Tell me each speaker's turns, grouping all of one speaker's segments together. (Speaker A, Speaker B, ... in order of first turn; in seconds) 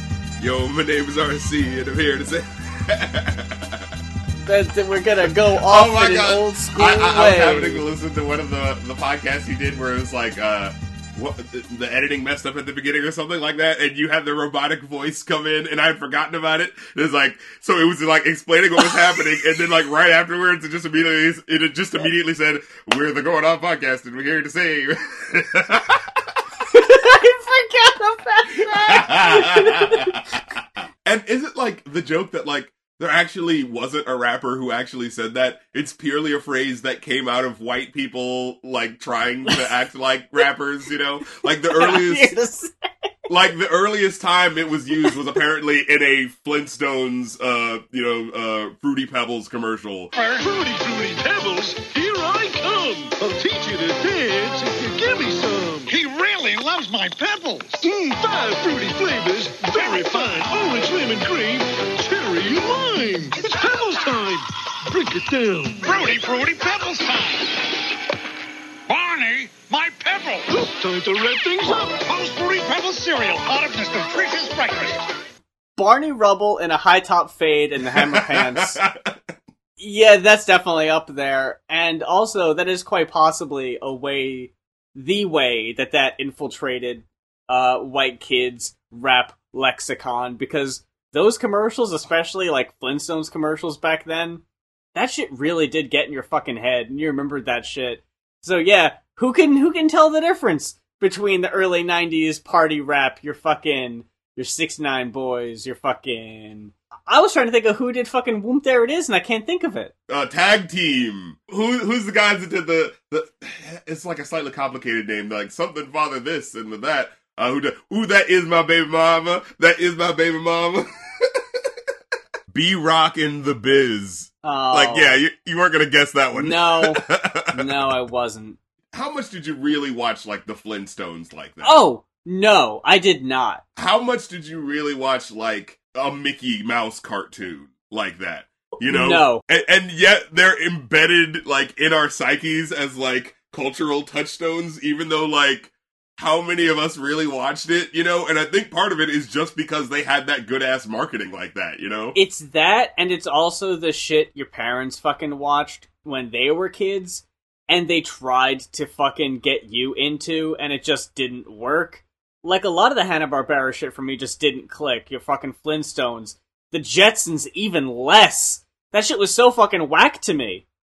Speaker A: 0.4-3.9, 5.7-26.4, 28.6-42.4, 43.3-50.1, 77.9-79.2, 110.1-121.7, 122.5-127.7, 128.9-131.8, 133.8-152.2
Speaker B: 4.5-7.8, 26.7-30.2, 41.8-42.7, 75.8-78.8, 79.8-94.4, 95.0-109.9, 124.4-125.2, 126.3-128.6, 131.6-133.6, 138.8-139.4, 152.1-170.6
Speaker C: 50.2-50.5, 55.9-57.9, 59.8-60.3, 65.8-67.7, 68.9-70.5, 71.7-75.1
Speaker D: 50.4-56.0, 57.8-66.2, 70.5-71.9